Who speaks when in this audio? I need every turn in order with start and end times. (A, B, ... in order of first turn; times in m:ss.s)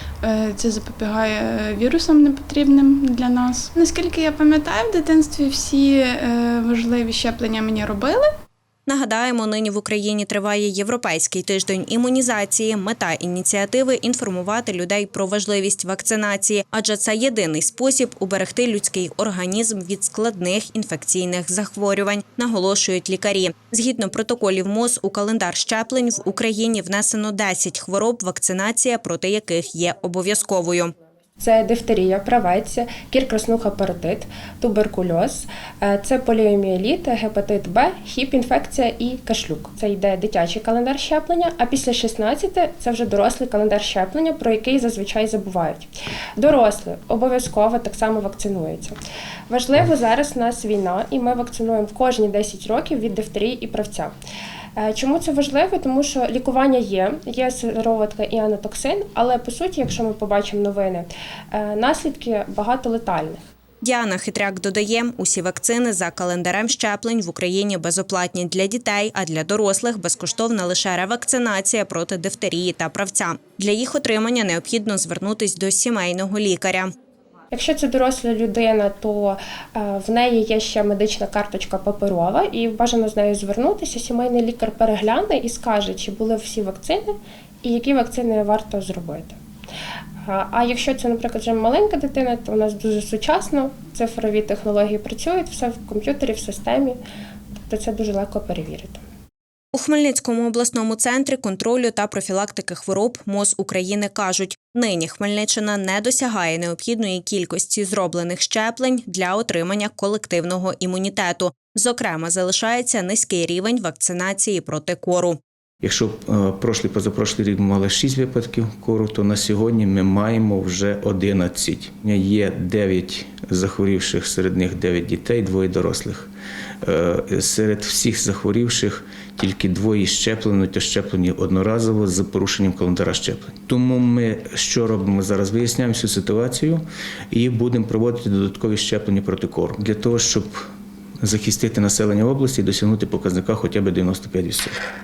0:00.2-0:08.3 A
0:08.9-0:30.9 B
0:31.4-0:48.9 C
0:49.5-0:54.1 C
0:54.8-1:03.4 C
1:03.8-1:16.9 B
1:17.5-1:29.4 C
1:30.2-1:37.0 C
1:37.7-1:39.0 C
1:39.7-1:55.4 B
1:55.8-2:06.3 D
2:06.8-2:20.6 D
2:21.2-2:24.8 D